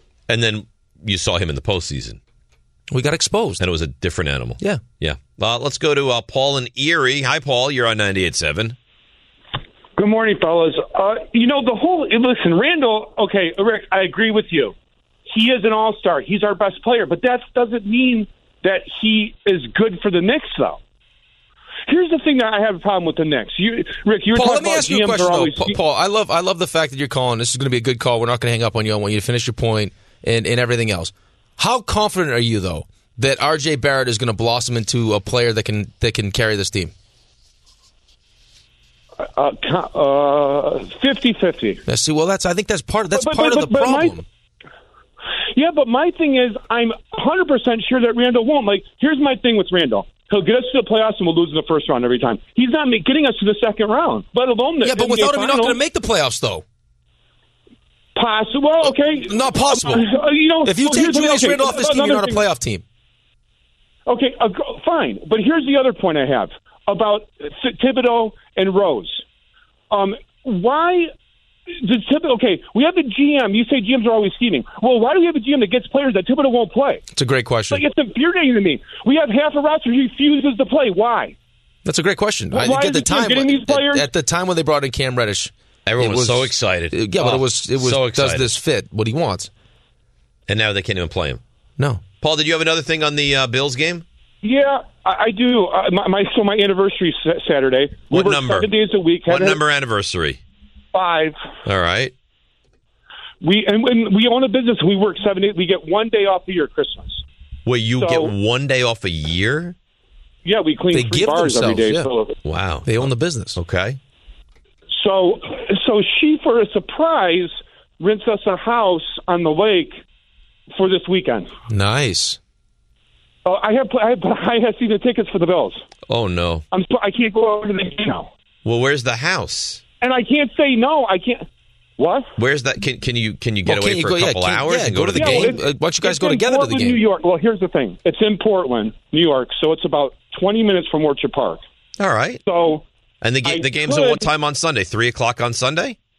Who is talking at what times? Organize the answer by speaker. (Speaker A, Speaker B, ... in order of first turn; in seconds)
Speaker A: 0.3-2.2, 3.6-8.8, 85.9-88.5, 90.5-91.4, 92.2-94.0, 98.1-98.7, 99.3-100.4, 101.7-102.1, 107.7-109.8, 112.4-112.9, 113.6-114.0, 126.1-126.6, 128.7-129.8, 132.4-135.6, 142.0-142.4, 143.2-146.0
Speaker B: 2.9-3.6, 24.3-36.9, 41.9-44.2, 54.8-56.6, 59.1-60.1, 60.6-62.8, 77.1-77.8, 81.8-89.5, 91.8-92.0, 110.9-112.1, 112.9-113.6, 121.7-122.4, 133.7-137.0
Speaker C: 10.0-14.7, 15.3-20.8, 21.9-25.8, 39.2-41.8, 43.1-44.2, 45.5-55.8, 58.2-62.5, 64.1-69.2, 69.9-71.1, 71.7-77.0, 77.7-81.3, 82.5-84.1, 94.4-99.6, 100.9-101.4, 103.4-107.2, 108.0-108.3, 110.5-112.3, 114.9-120.0, 120.8-121.5, 123.5-125.8, 126.7-128.3, 130.0-131.4, 132.0-132.3, 135.1-141.6, 142.5-142.8, 143.4-144.3